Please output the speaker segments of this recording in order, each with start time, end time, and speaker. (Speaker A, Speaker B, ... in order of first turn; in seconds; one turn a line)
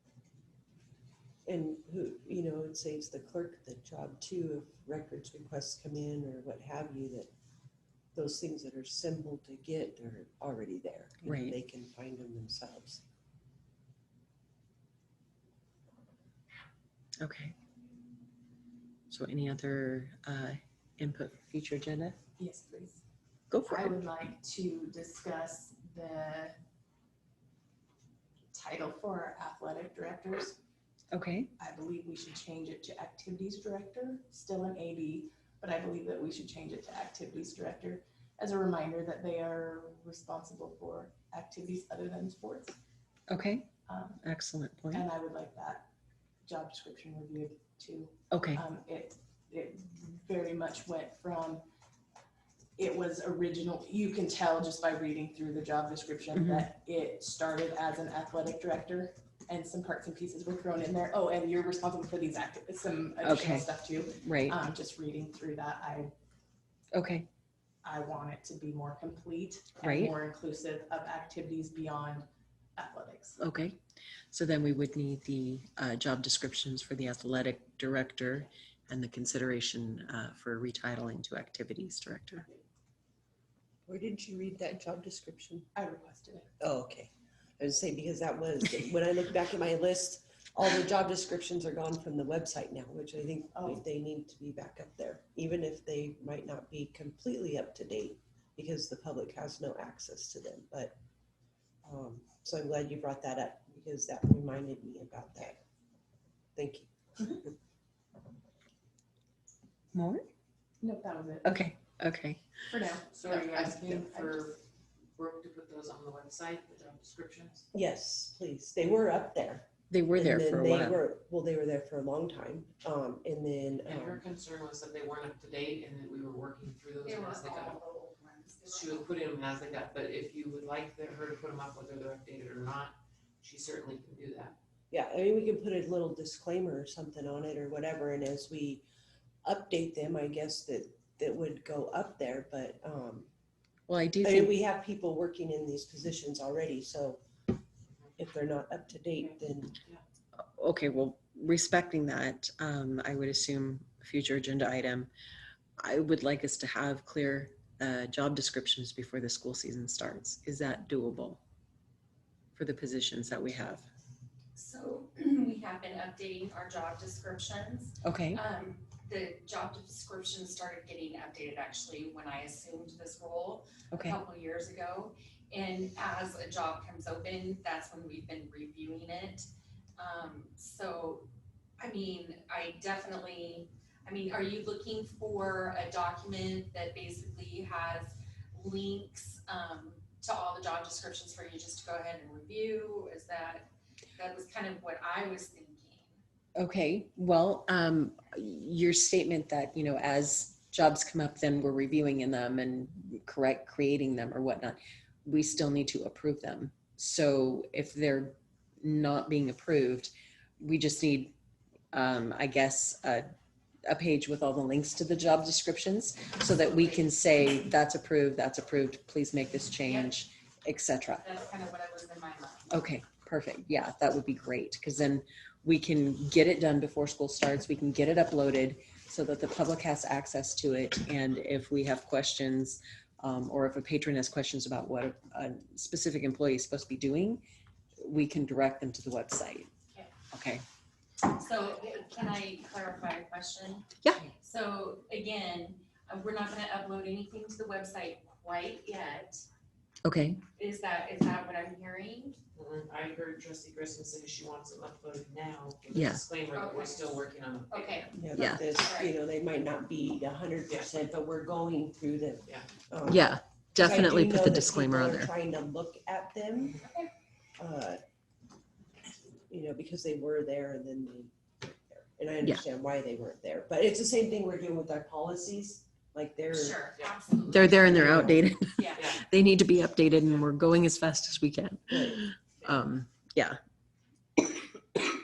Speaker A: 1.5-7.3
Speaker A: 8.2-13.0
Speaker B: 11.3-11.6
Speaker B: 17.2-17.6
Speaker B: 19.1-22.2
Speaker C: 22.4-23.0
Speaker B: 23.5-24.0
Speaker C: 23.7-26.5
Speaker C: 28.5-30.6
Speaker B: 31.1-31.5
Speaker C: 31.6-42.7
Speaker B: 43.3-43.7
Speaker C: 43.9-44.2
Speaker B: 44.2-45.1
Speaker C: 44.9-45.8
Speaker C: 46.5-51.6
Speaker B: 48.3-48.6
Speaker C: 52.8-66.0
Speaker B: 56.4-56.7
Speaker B: 63.2-63.7
Speaker B: 64.2-64.6
Speaker B: 66.9-67.3
Speaker C: 67.8-72.2
Speaker B: 69.8-70.1
Speaker C: 72.8-73.4
Speaker B: 73.4-73.8
Speaker B: 74.3-82.5
Speaker A: 83.9-85.7
Speaker C: 85.8-86.4
Speaker A: 86.6-101.0
Speaker A: 101.8-105.6
Speaker A: 106.6-107.5
Speaker B: 109.9-110.3
Speaker C: 110.8-111.5
Speaker B: 111.4-112.4
Speaker C: 112.7-114.5
Speaker D: 113.1-114.6
Speaker D: 115.2-117.7
Speaker A: 117.7-124.2
Speaker B: 119.9-121.0
Speaker D: 123.9-127.8
Speaker E: 127.0-129.1
Speaker D: 128.7-134.6
Speaker A: 134.9-138.8
Speaker A: 139.4-143.3
Speaker B: 143.9-144.5
Speaker A: 144.2-147.2
Speaker A: 148.2-149.8
Speaker B: 150.4-155.1
Speaker B: 155.8-161.4
Speaker B: 162.6-163.9
Speaker E: 164.6-179.5
Speaker B: 168.0-168.4
Speaker B: 173.9-174.2
Speaker E: 180.0-181.3
Speaker E: 181.8-196.2
Speaker B: 196.6-211.3
Speaker B: 211.9-213.3
Speaker B: 213.9-221.2
Speaker E: 216.7-217.0
Speaker E: 219.8-220.2
Speaker E: 221.1-222.8
Speaker B: 222.7-237.4
Speaker B: 238.0-239.7
Speaker B: 240.3-240.6
Speaker E: 241.3-249.5
Speaker B: 250.0-250.4
Speaker E: 250.6-252.4
Speaker D: 252.6-258.1
Speaker B: 255.9-256.2
Speaker E: 256.5-259.1
Speaker A: 258.2-266.8
Speaker B: 258.4-258.6
Speaker B: 263.1-265.3
Speaker E: 266.8-267.1
Speaker A: 267.6-268.0
Speaker A: 269.5-276.9
Speaker E: 276.5-278.1
Speaker B: 277.5-283.6
Speaker A: 277.8-278.5
Speaker E: 278.8-279.1
Speaker A: 281.9-282.2